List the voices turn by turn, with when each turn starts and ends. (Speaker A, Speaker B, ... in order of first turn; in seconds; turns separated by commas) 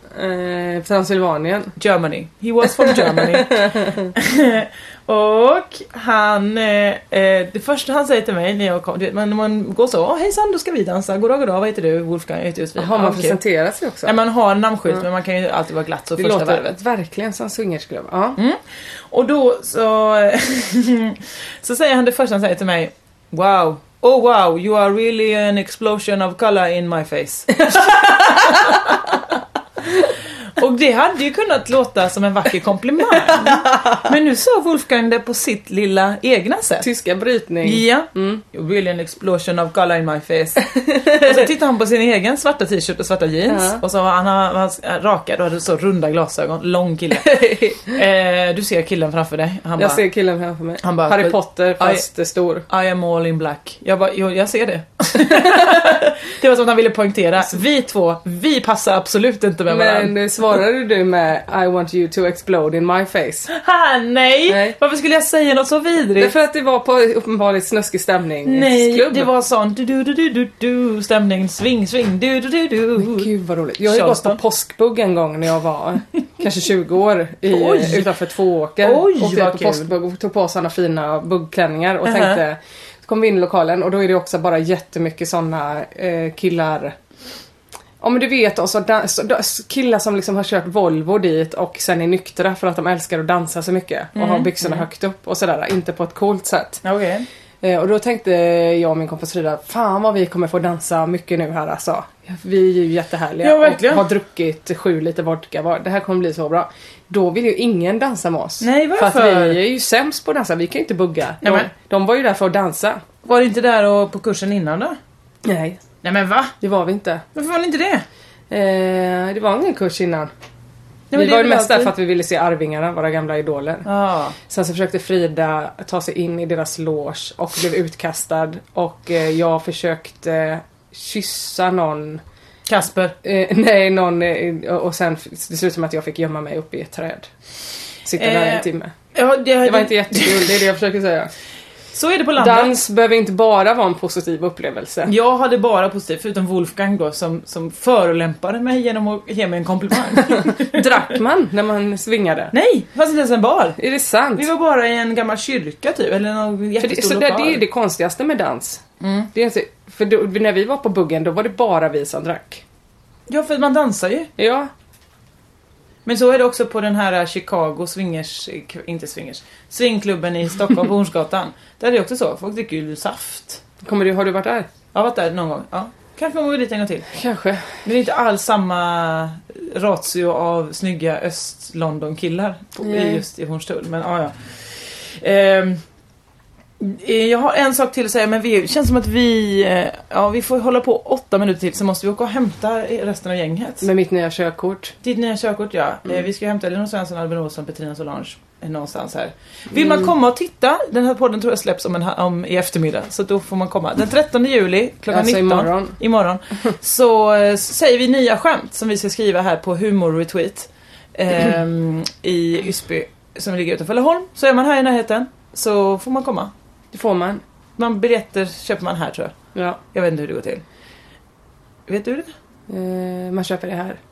Speaker A: 0.1-1.8, Speaker B: 1.8-13.4, Speaker A: 2.6-4.1, Speaker A: 12.8-14.2, Speaker B: 14.0-16.8, Speaker A: 16.2-18.4, Speaker B: 19.1-29.1, Speaker A: 27.7-28.8, Speaker B: 30.6-36.9, Speaker A: 33.3-34.0, Speaker A: 36.8-38.4, Speaker B: 37.6-50.0, Speaker A: 40.6-41.5, Speaker A: 43.5-43.8, Speaker A: 47.1-48.0, Speaker A: 49.8-52.6, Speaker B: 50.8-52.1, Speaker B: 52.7-60.2, Speaker A: 55.2-56.0, Speaker A: 59.7-63.5, Speaker B: 63.5-66.3, Speaker A: 64.5-64.8, Speaker A: 66.2-69.3, Speaker B: 68.5-73.3, Speaker A: 73.0-87.0, Speaker B: 73.8-74.4, Speaker B: 77.5-78.1, Speaker B: 78.8-79.9, Speaker B: 82.0-82.4, Speaker A: 88.0-96.8, Speaker B: 94.1-94.9, Speaker B: 96.8-97.3, Speaker A: 97.6-113.0, Speaker B: 103.4-104.1, Speaker B: 108.6-109.6, Speaker B: 111.4-111.7, Speaker B: 113.2-115.0, Speaker A: 115.5-115.8, Speaker B: 116.0-116.5, Speaker A: 116.6-117.2, Speaker B: 117.3-118.0, Speaker A: 118.5-120.3, Speaker B: 121.1-121.9, Speaker A: 121.1-123.9, Speaker B: 123.8-124.3, Speaker A: 124.5-132.2, Speaker B: 132.7-133.1, Speaker A: 133.2-137.3, Speaker A: 138.1-138.9, Speaker B: 138.2-140.6, Speaker A: 139.6-141.3, Speaker B: 141.9-142.8, Speaker A: 142.4-145.1, Speaker B: 145.1-151.0, Speaker A: 150.3-152.5, Speaker B: 152.5-153.8, Speaker A: 153.8-154.5, Speaker B: 154.3-157.6, Speaker A: 156.8-158.8, Speaker B: 159.0-159.3, Speaker A: 159.3-162.6, Speaker B: 163.3-164.3, Speaker A: 164.4-164.7, Speaker B: 166.1-173.6, Speaker A: 173.8-174.7, Speaker B: 174.9-177.1, Speaker A: 177.1-177.8, Speaker B: 177.8-185.8, Speaker A: 182.8-183.2, Speaker B: 186.8-193.9, Speaker A: 193.8-194.9, Speaker B: 195.0-216.5, Speaker A: 205.1-206.0, Speaker A: 216.9-217.4, Speaker B: 217.8-219.3, Speaker A: 219.6-219.8, Speaker B: 219.9-220.6, Speaker B: 221.9-222.3, Speaker A: 222.7-224.0